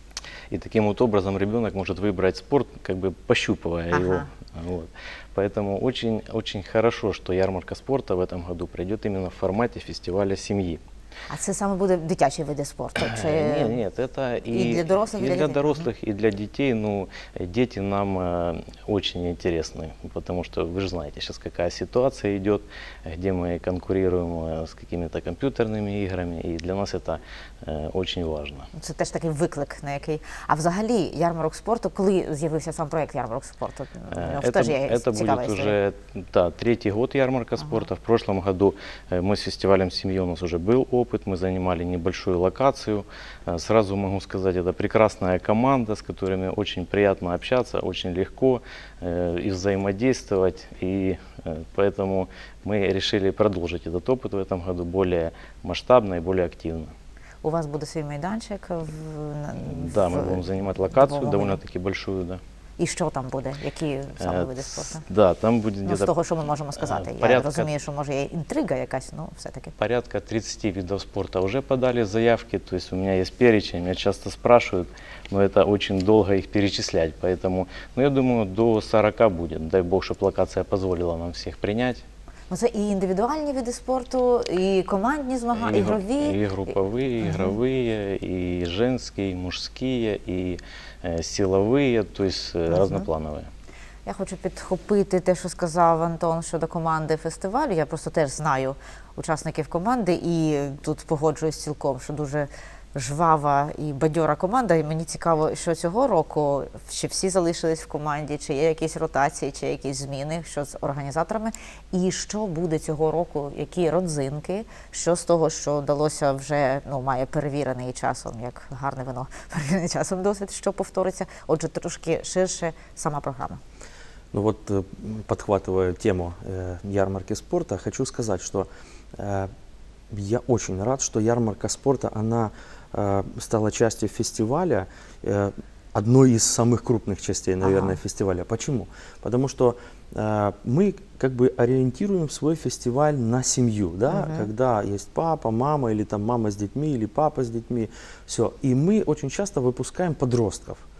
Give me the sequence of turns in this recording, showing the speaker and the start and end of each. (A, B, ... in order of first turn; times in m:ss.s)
0:00.5-0:10.8 A
0:03.9-0:04.3 B
0:11.3-0:13.8 B
0:13.0-0:28.7 A
0:14.5-0:15.9 B
0:28.7-0:35.8 B
0:34.1-0:56.9 A
0:37.6-0:37.9 B
0:57.4-1:01.6 B
0:59.6-1:02.4 A
1:02.8-1:05.0 B
1:04.2-1:06.1 A
1:05.8-1:09.7 B
1:06.8-1:07.7 A
1:09.8-1:22.0 A
1:22.5-1:26.4 B
1:25.6-1:33.5 A
1:27.2-1:27.6 B
1:32.7-1:33.1 B
1:34.0-2:03.6 B
2:04.3-2:09.5 C
2:10.1-2:30.8 C
2:17.6-2:18.0 B
2:24.1-2:24.5 B